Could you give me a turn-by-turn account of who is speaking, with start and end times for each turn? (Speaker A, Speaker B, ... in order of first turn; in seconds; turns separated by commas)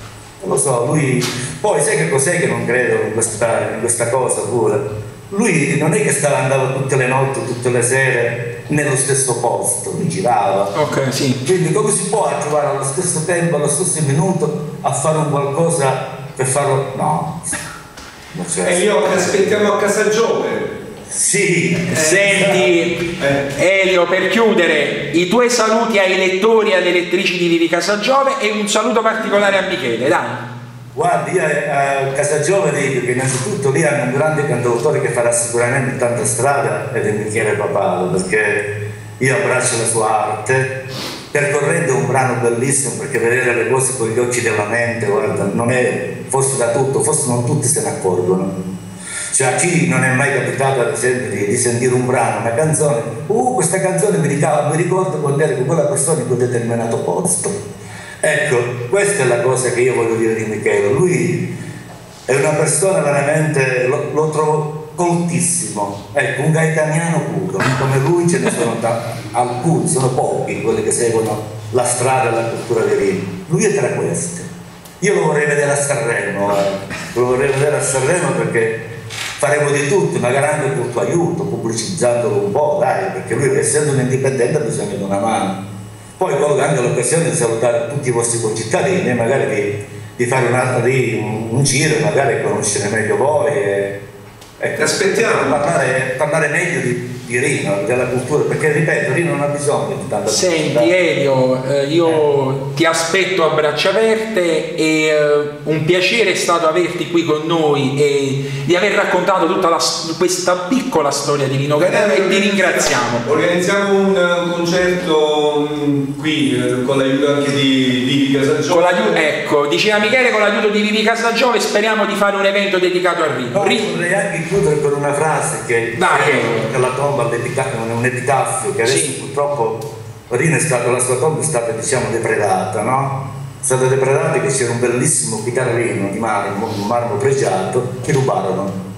Speaker A: 0.4-10.8, Speaker B: 10.8-11.4, Speaker A: 11.4-17.6, Speaker A: 18.3-19.7, Speaker C: 18.6-20.8, Speaker A: 21.1-22.6, Speaker B: 21.9-30.5, Speaker C: 21.9-23.5, Speaker A: 30.9-40.8, Speaker A: 41.3-48.5, Speaker A: 49.3-57.5, Speaker A: 58.2-61.5, Speaker A: 62.3-74.5, Speaker A: 75.0-78.8, Speaker A: 79.4-85.6, Speaker A: 86.2-94.0, Speaker A: 94.6-100.9, Speaker C: 94.8-95.7, Speaker B: 100.3-113.2, Speaker C: 111.7-119.2, Speaker B: 118.7-123.9, Speaker A: 123.5-138.8, Speaker B: 126.0-126.7, Speaker B: 128.8-129.2